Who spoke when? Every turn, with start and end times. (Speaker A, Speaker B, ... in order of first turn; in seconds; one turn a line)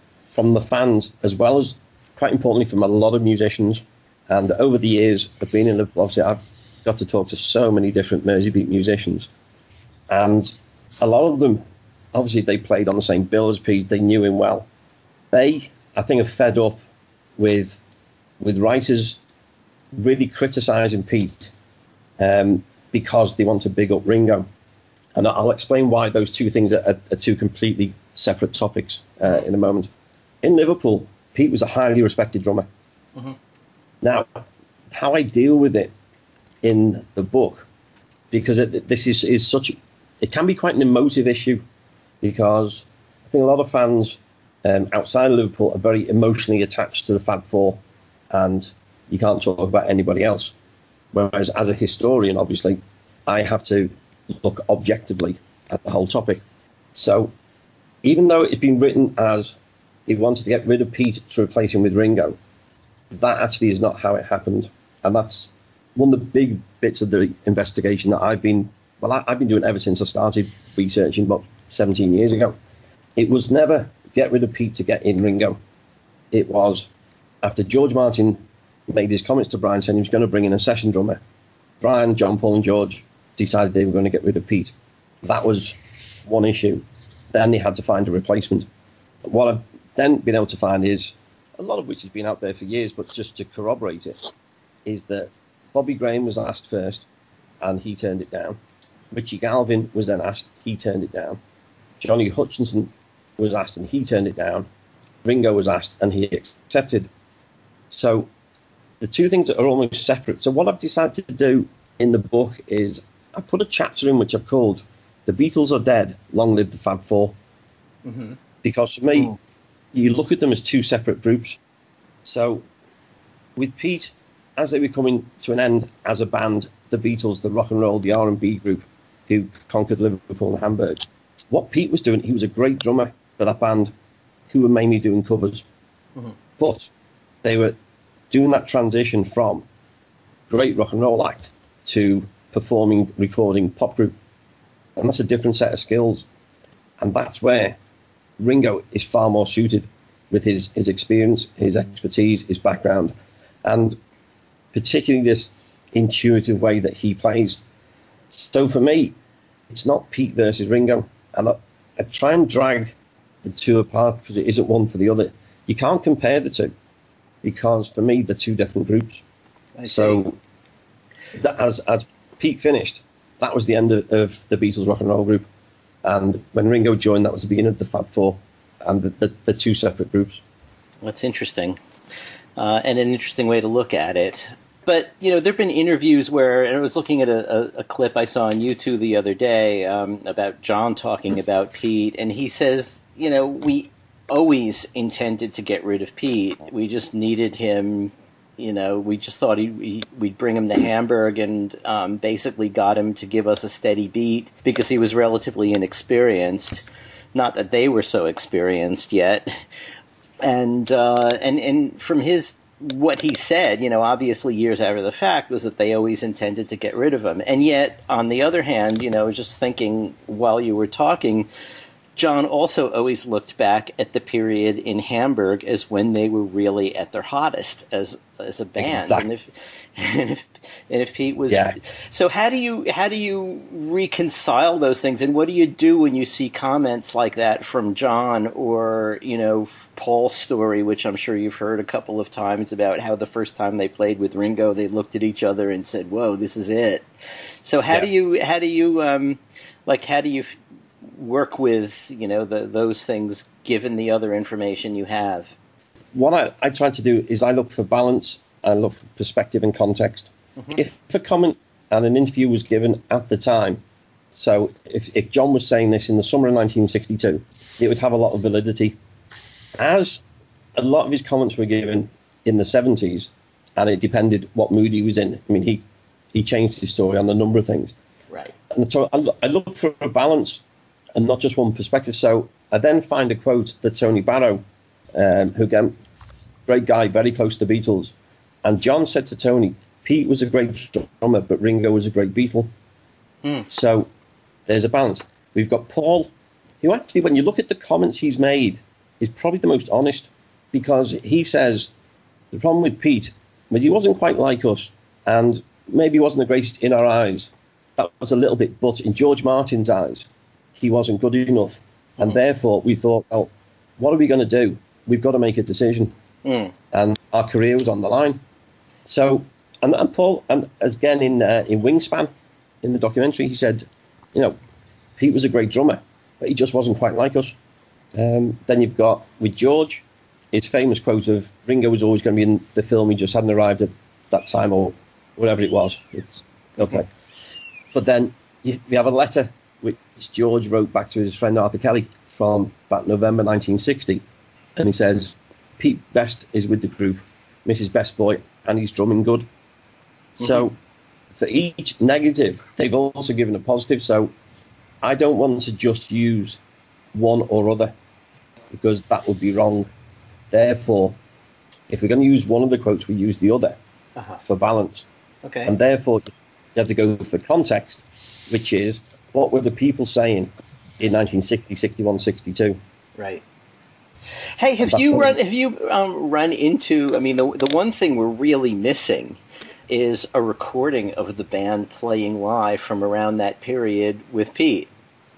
Speaker A: 0.3-9.3
Speaker A: 10.1-11.6
Speaker A: 12.1-14.7
Speaker A: 15.3-16.8
Speaker A: 17.4-17.8
Speaker A: 18.4-19.2
Speaker A: 19.9-21.5
Speaker A: 22.2-24.5
Speaker A: 25.1-29.9
Speaker A: 30.4-32.7
Speaker A: 34.0-35.9
Speaker A: 36.6-37.7
Speaker A: 38.3-41.6
Speaker A: 42.2-47.8
Speaker A: 48.3-50.5
Speaker A: 51.1-56.4
Speaker A: 57.0-57.3
Speaker A: 58.0-62.4
Speaker A: 63.1-72.6
Speaker A: 73.2-75.6
Speaker A: 76.3-76.9
Speaker A: 77.4-81.2
Speaker A: 81.8-88.7
Speaker A: 89.2-94.3
Speaker A: 94.8-97.1
Speaker A: 97.6-98.6
Speaker A: 99.1-101.4
Speaker A: 102.0-104.7
Speaker A: 105.2-107.1
Speaker A: 107.9-108.3
Speaker A: 109.0-117.3
Speaker B: 118.0-118.4
Speaker A: 118.6-119.3
Speaker A: 119.9-121.6
Speaker A: 122.2-122.7
Speaker A: 123.6-133.9
Speaker A: 134.5-135.7
Speaker A: 136.6-136.9
Speaker A: 137.4-137.8
Speaker A: 138.3-139.7
Speaker A: 140.5-144.1
Speaker A: 145.0-146.3
Speaker A: 147.0-147.8
Speaker A: 148.4-153.1
Speaker A: 153.6-154.0
Speaker A: 154.7-157.6
Speaker A: 158.3-159.2
Speaker A: 159.7-166.7
Speaker A: 167.4-169.2
Speaker B: 169.8-170.2
Speaker A: 169.8-170.4
Speaker A: 171.3-175.5
Speaker A: 176.0-180.4
Speaker B: 181.0-181.8
Speaker B: 182.6-209.6
Speaker B: 210.4-221.5
Speaker B: 222.2-247.1
Speaker A: 228.8-229.3
Speaker A: 231.5-231.8
Speaker B: 247.6-255.5
Speaker A: 256.1-263.8
Speaker A: 264.3-269.0
Speaker A: 269.8-270.2
Speaker A: 270.8-277.9
Speaker A: 278.7-280.6
Speaker A: 281.1-284.6
Speaker A: 285.1-285.9
Speaker A: 286.7-292.7
Speaker A: 293.7-294.1
Speaker A: 294.7-296.3
Speaker A: 296.8-301.9
Speaker A: 302.5-316.1
Speaker B: 316.4-316.7
Speaker A: 316.9-318.4
Speaker A: 319.1-322.3
Speaker A: 322.8-324.6
Speaker A: 325.2-327.6
Speaker A: 328.1-337.1
Speaker A: 337.9-344.2
Speaker A: 344.8-349.5
Speaker A: 350.4-350.8
Speaker A: 351.4-354.3
Speaker A: 355.0-356.6
Speaker A: 357.1-357.9
Speaker A: 358.7-359.9
Speaker A: 360.5-361.2
Speaker A: 361.9-363.8
Speaker A: 364.4-365.1
Speaker B: 365.4-365.7
Speaker A: 365.7-372.8
Speaker B: 373.2-373.4
Speaker B: 374.6-384.9
Speaker A: 374.9-375.4